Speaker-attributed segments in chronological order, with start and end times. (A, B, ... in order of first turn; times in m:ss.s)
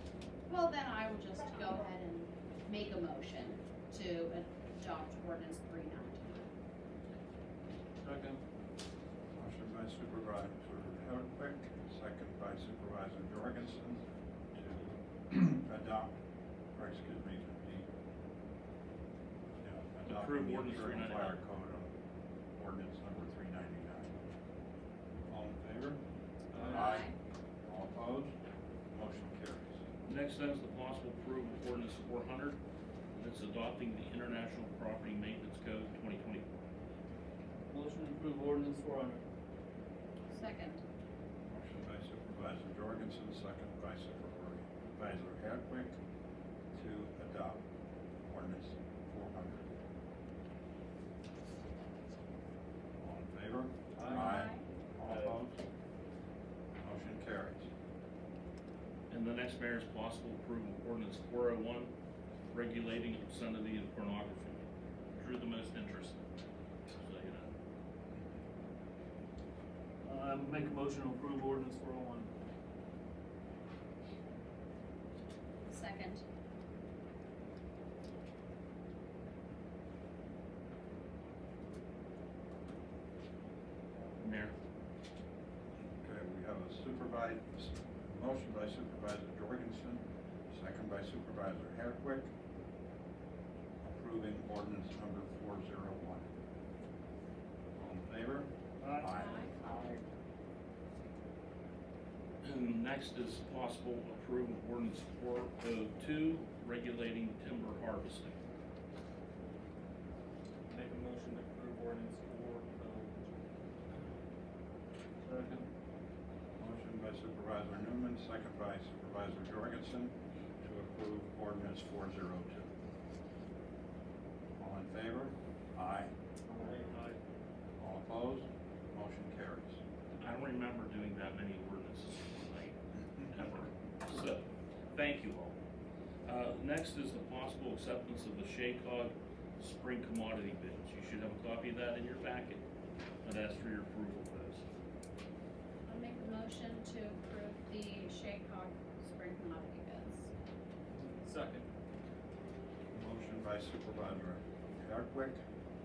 0:00.5-0:06.5 A
0:08.0-0:08.4 B
0:09.4-0:16.1 C
0:16.7-0:17.9 C
0:19.6-0:21.9 C
0:20.0-0:21.4 D
0:22.6-0:24.2 C
0:25.3-0:26.0 C
0:26.5-0:26.9 B
0:26.6-0:27.2 A
0:26.6-0:27.1 C
0:27.6-0:28.3 C
0:28.9-0:29.8 C
0:30.0-0:32.6 D
0:33.1-0:36.6 D
0:37.7-0:39.2 B
0:40.3-0:40.8 A
0:41.5-0:46.0 C
0:46.7-0:47.6 C
0:48.2-0:49.7 C
0:53.0-0:55.6 C
0:54.0-0:54.6 A
0:56.8-0:57.7 C
0:59.1-1:01.9 D
1:02.5-1:06.2 D
1:06.9-1:07.5 D
1:10.0-1:12.3 B
1:15.7-1:16.2 A
1:24.2-1:24.5 D
1:26.0-1:32.3 C
1:33.8-1:36.2 C
1:37.8-1:39.4 C
1:38.8-1:39.1 B
1:39.1-1:39.6 A
1:42.4-1:48.4 D
1:50.7-1:53.1 B
1:55.2-1:55.6 B
1:56.6-2:02.7 C
2:04.6-2:06.1 C
2:07.8-2:09.8 C
2:10.2-2:12.8 D
2:13.3-2:15.6 D
2:16.2-2:22.6 D
2:23.2-2:24.6 D
2:25.9-2:30.3 A
2:31.2-2:31.6 B
2:32.9-2:35.4 C